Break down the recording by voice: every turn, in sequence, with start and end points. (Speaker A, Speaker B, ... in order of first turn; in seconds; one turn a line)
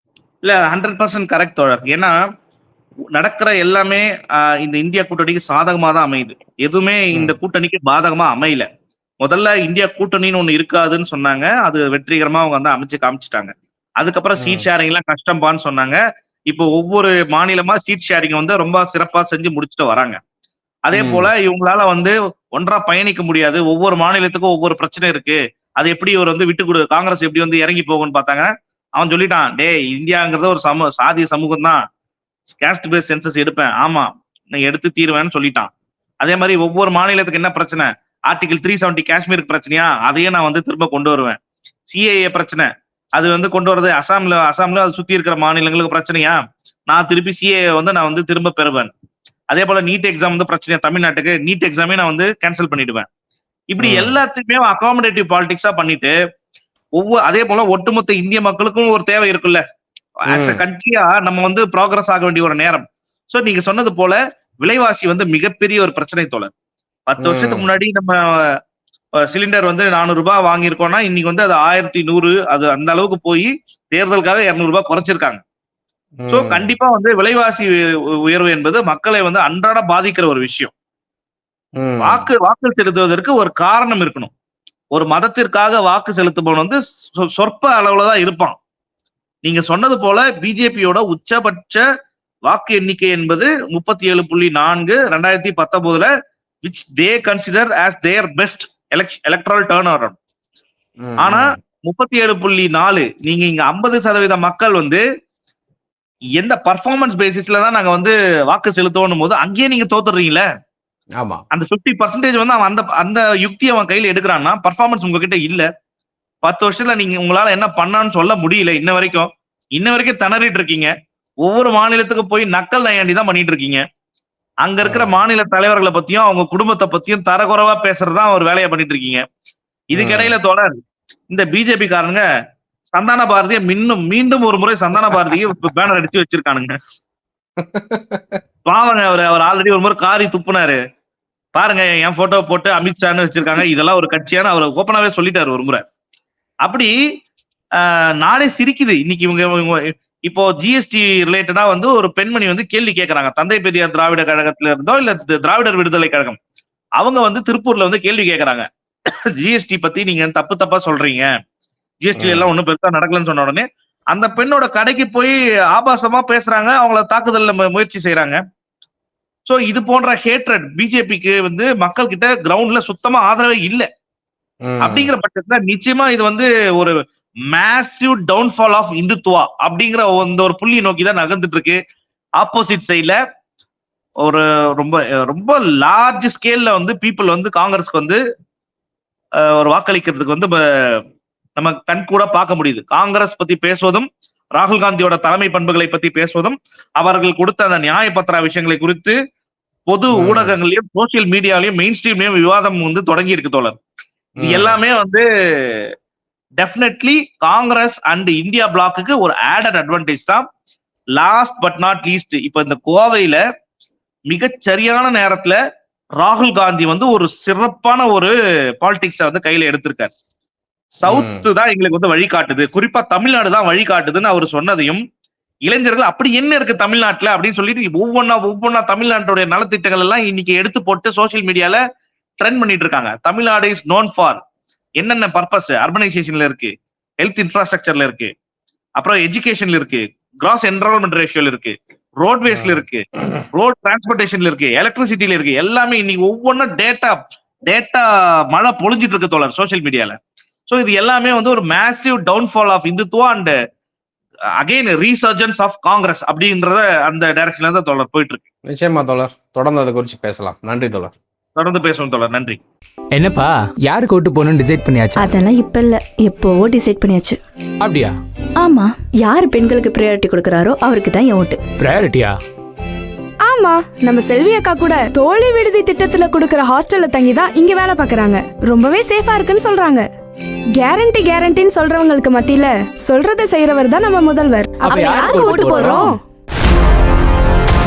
Speaker A: 0.4-2.1
Speaker A: 3.2-8.7
Speaker A: 9.2-16.0
Speaker B: 14.4-14.7
Speaker A: 16.5-20.2
Speaker A: 20.9-31.8
Speaker B: 20.9-21.3
Speaker A: 32.5-35.7
Speaker A: 36.2-41.4
Speaker A: 41.9-48.9
Speaker A: 49.5-53.1
Speaker A: 53.7-56.1
Speaker B: 53.8-54.2
Speaker A: 57.0-59.6
Speaker A: 60.3-66.5
Speaker B: 60.3-60.6
Speaker A: 67.1-68.4
Speaker B: 67.2-67.7
Speaker A: 69.3-75.4
Speaker B: 76.2-76.7
Speaker A: 76.3-77.8
Speaker A: 78.3-80.7
Speaker B: 81.8-82.3
Speaker A: 82.0-84.3
Speaker A: 84.9-86.8
Speaker A: 87.4-88.6
Speaker A: 89.5-91.8
Speaker A: 92.5-96.1
Speaker A: 96.7-100.2
Speaker B: 101.0-101.6
Speaker A: 101.2-105.0
Speaker A: 106.4-110.5
Speaker A: 111.5-115.7
Speaker A: 116.4-120.9
Speaker A: 121.4-123.8
Speaker A: 124.6-129.2
Speaker B: 124.8-125.2
Speaker A: 129.9-130.8
Speaker B: 129.9-130.4
Speaker A: 131.3-132.2
Speaker A: 132.9-136.7
Speaker B: 135.1-135.4
Speaker B: 137.6-138.4
Speaker A: 138.7-140.8
Speaker A: 141.6-145.8
Speaker A: 146.6-146.9
Speaker A: 147.8-156.4
Speaker A: 157.0-158.7
Speaker A: 159.4-161.3
Speaker A: 162.0-168.4
Speaker B: 162.2-162.5
Speaker A: 169.5-173.9
Speaker B: 174.7-175.1
Speaker A: 174.8-176.9
Speaker A: 177.5-181.8
Speaker A: 182.4-183.2
Speaker A: 184.2-188.2
Speaker A: 189.5-191.0
Speaker A: 191.6-199.2
Speaker A: 199.9-203.8
Speaker B: 200.2-200.6
Speaker B: 204.4-204.8
Speaker A: 204.4-205.8
Speaker A: 206.6-210.4
Speaker A: 211.2-213.4
Speaker A: 214.3-215.6
Speaker A: 216.2-220.1
Speaker A: 221.0-225.0
Speaker B: 221.1-221.5
Speaker A: 225.7-231.8
Speaker A: 232.4-234.4
Speaker A: 235.0-238.3
Speaker A: 239.0-250.2
Speaker B: 242.5-242.8
Speaker A: 250.7-253.5
Speaker A: 254.6-258.4
Speaker B: 258.7-261.1
Speaker A: 261.6-262.6
Speaker C: 263.1-265.4
Speaker D: 265.2-267.4
Speaker C: 267.8-268.2
Speaker D: 268.6-271.6
Speaker C: 271.8-272.4
Speaker E: 273.5-280.1
Speaker E: 280.8-286.2
Speaker C: 284.9-286.1
Speaker D: 285.0-286.0